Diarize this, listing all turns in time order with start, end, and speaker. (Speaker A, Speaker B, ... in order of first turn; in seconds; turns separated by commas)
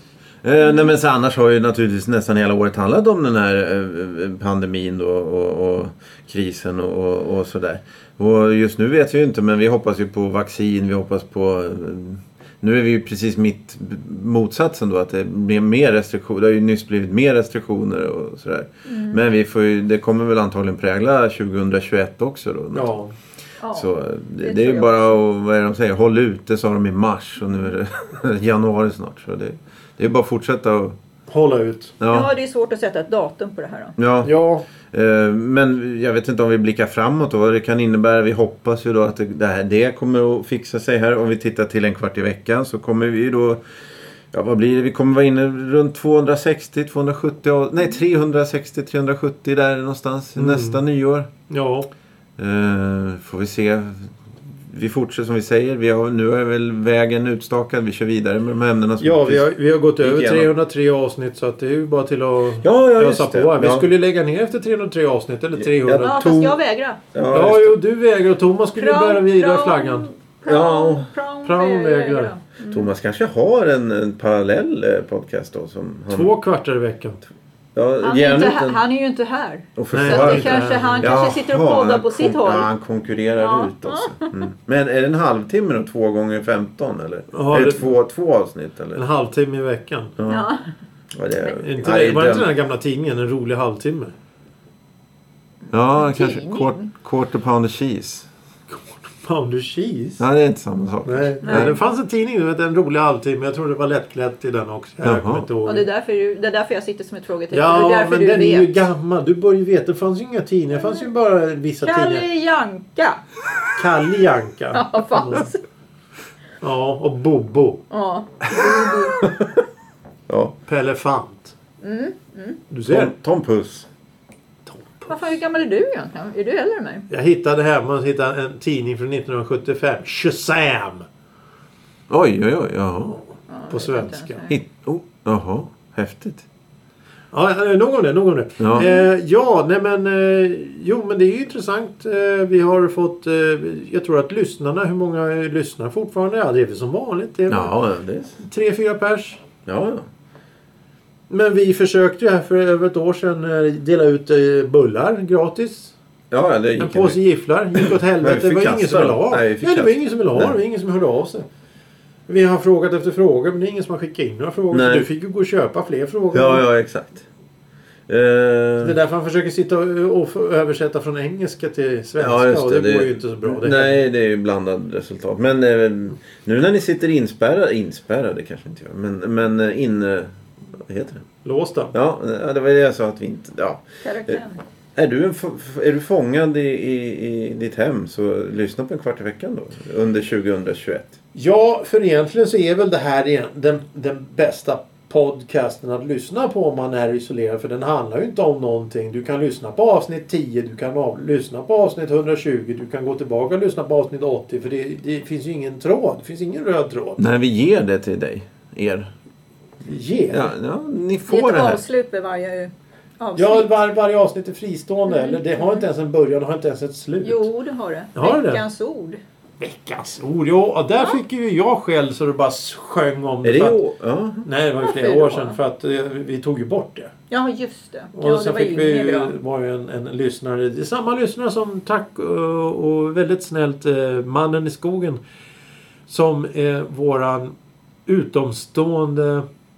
Speaker A: 0.4-22.9, Speaker B: 18.9-19.2, Speaker C: 22.7-23.1, Speaker B: 23.6-25.2, Speaker A: 23.7-31.0, Speaker C: 31.3-31.9, Speaker A: 32.0-32.3, Speaker B: 32.1-34.0, Speaker A: 34.0-34.3, Speaker C: 34.2-34.6, Speaker A: 34.9-43.6, Speaker A: 44.3-51.3, Speaker C: 50.4-50.8, Speaker C: 51.5-51.9, Speaker A: 52.4-59.5, Speaker C: 59.0-66.5, Speaker A: 60.0-60.5, Speaker A: 62.6-63.9, Speaker A: 65.6-66.5, Speaker B: 66.0-67.0, Speaker A: 67.1-67.8, Speaker C: 67.3-70.1, Speaker B: 68.8-72.9, Speaker A: 70.5-71.1, Speaker C: 71.5-72.3, Speaker A: 72.7-76.3, Speaker C: 76.1-77.2, Speaker A: 77.8-78.8, Speaker B: 78.0-82.7, Speaker A: 79.8-89.0, Speaker C: 79.9-81.2, Speaker B: 83.4-84.3, Speaker C: 87.3-88.0, Speaker C: 89.0-90.2, Speaker A: 90.2-90.5, Speaker B: 90.2-90.7, Speaker A: 91.1-92.5, Speaker C: 91.6-94.1, Speaker A: 95.7-98.3, Speaker B: 96.0-96.9, Speaker C: 98.7-100.2, Speaker A: 100.2-101.8, Speaker C: 101.0-105.9, Speaker B: 101.4-101.8, Speaker A: 105.0-105.5, Speaker B: 105.6-108.7, Speaker C: 107.5-112.2, Speaker B: 110.8-111.0, Speaker B: 111.8-113.2, Speaker C: 113.8-115.5, Speaker B: 114.7-115.6, Speaker C: 116.6-117.8, Speaker B: 117.9-119.2, Speaker A: 119.2-119.6, Speaker A: 120.3-120.5, Speaker C: 120.7-121.5, Speaker B: 121.8-122.6, Speaker C: 122.7-123.1, Speaker A: 122.9-123.9, Speaker C: 124.7-125.2, Speaker B: 125.1-127.1, Speaker C: 127.1-131.1, Speaker A: 132.1-133.2, Speaker B: 133.5-134.6, Speaker C: 133.7-134.4, Speaker A: 134.5-136.5, Speaker C: 137.3-147.8, Speaker A: 138.6-138.9, Speaker B: 138.8-139.1, Speaker A: 147.5-148.4, Speaker C: 148.4-149.4, Speaker A: 149.7-150.1, Speaker C: 151.3-155.9, Speaker A: 156.3-157.2, Speaker C: 156.8-161.5, Speaker A: 157.8-160.6, Speaker C: 162.3-166.6, Speaker A: 164.7-165.1, Speaker A: 166.3-167.2, Speaker A: 168.1-169.0, Speaker C: 168.8-174.0, Speaker A: 172.2-181.2, Speaker C: 181.4-181.9, Speaker A: 181.9-184.4, Speaker B: 184.0-184.6, Speaker A: 185.0-191.1, Speaker C: 191.3-207.2, Speaker A: 207.2-209.1, Speaker C: 209.8-210.5, Speaker A: 210.3-211.8, Speaker B: 211.3-213.7, Speaker C: 213.3-217.5, Speaker B: 215.1-215.8, Speaker B: 217.2-219.2, Speaker C: 218.2-218.6, Speaker C: 219.6-223.8, Speaker A: 223.4-224.4, Speaker C: 224.4-227.1, Speaker B: 224.8-225.6, Speaker B: 227.3-229.3, Speaker C: 228.2-235.2, Speaker C: 236.1-237.5, Speaker C: 238.1-239.5